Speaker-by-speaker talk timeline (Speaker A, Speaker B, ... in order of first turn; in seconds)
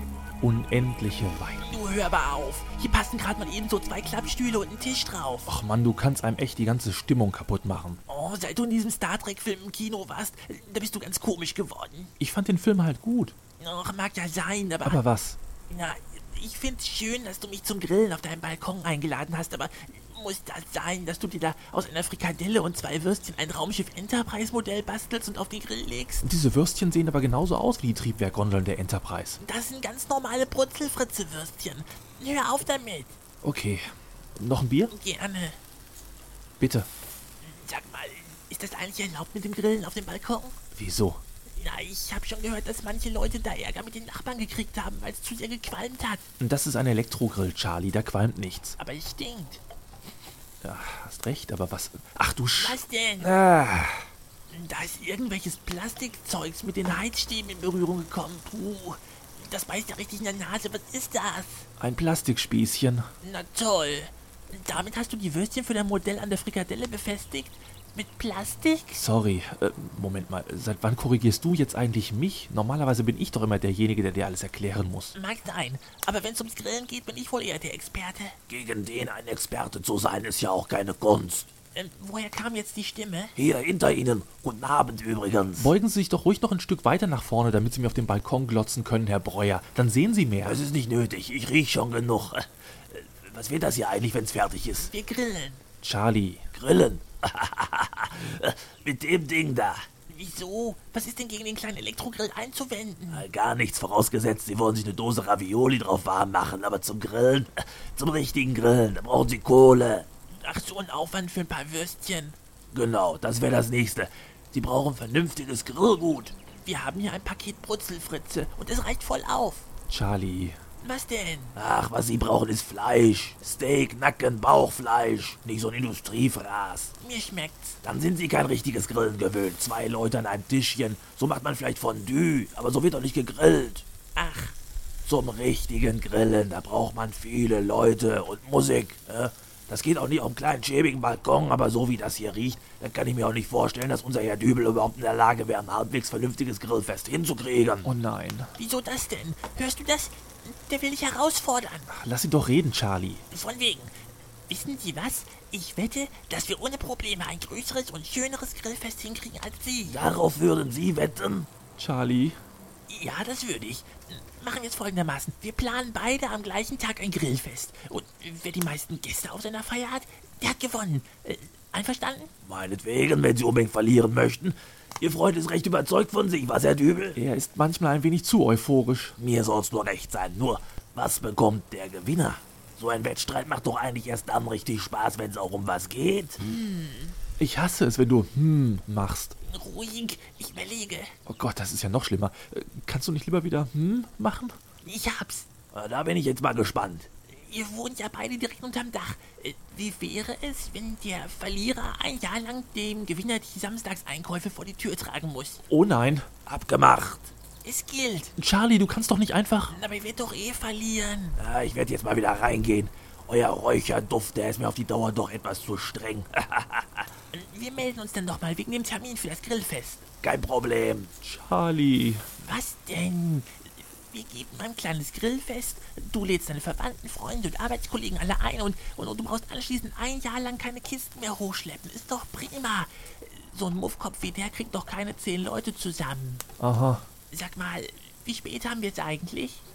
Speaker A: 0.4-1.7, 5.5-8.0, 12.2-13.4, 14.8-15.4, 26.2-29.4, 33.4-34.9, 36.6-36.9, 40.7-41.2, 46.4-48.8, 50.6-54.1, 61.8-63.1, 69.0-75.2, 85.6-90.6, 95.8-96.5, 119.9-120.6, 147.8-148.5, 151.9-153.2, 161.8-162.4, 177.2-179.2, 187.4-189.4, 191.3-194.6, 205.7-206.3, 208.4-209.8, 221.2-222.3, 236.6-237.1
Speaker B: 1.6-5.5, 8.1-12.1, 13.6-15.0, 15.7-26.3, 29.4-33.2, 34.9-35.6, 37.4-40.6, 41.6-46.3, 48.8-49.6, 52.6-53.4, 54.5-61.7, 63.2-69.0, 75.2-78.4, 81.7-83.3, 94.8-95.6, 100.1-103.3, 110.4-112.4, 116.6-119.7, 120.8-121.6, 127.0-127.8, 134.2-134.6, 148.6-151.9, 153.3-153.9, 154.5-160.0, 162.9-172.3, 186.4-187.2, 189.4-191.1, 194.8-195.5, 197.3-205.6, 207.6-208.3, 209.7-211.4, 217.3-220.1, 222.4-236.4, 237.3-239.7
Speaker C: 78.5-81.5, 83.4-85.7, 90.4-94.9, 96.5-99.9, 103.1-110.1, 112.7-116.4, 121.5-126.9, 127.8-133.9, 135.0-147.9, 159.9-161.5, 172.4-177.2, 179.2-186.4, 195.7-197.1, 206.5-207.3, 211.4-217.1, 220.2-221.1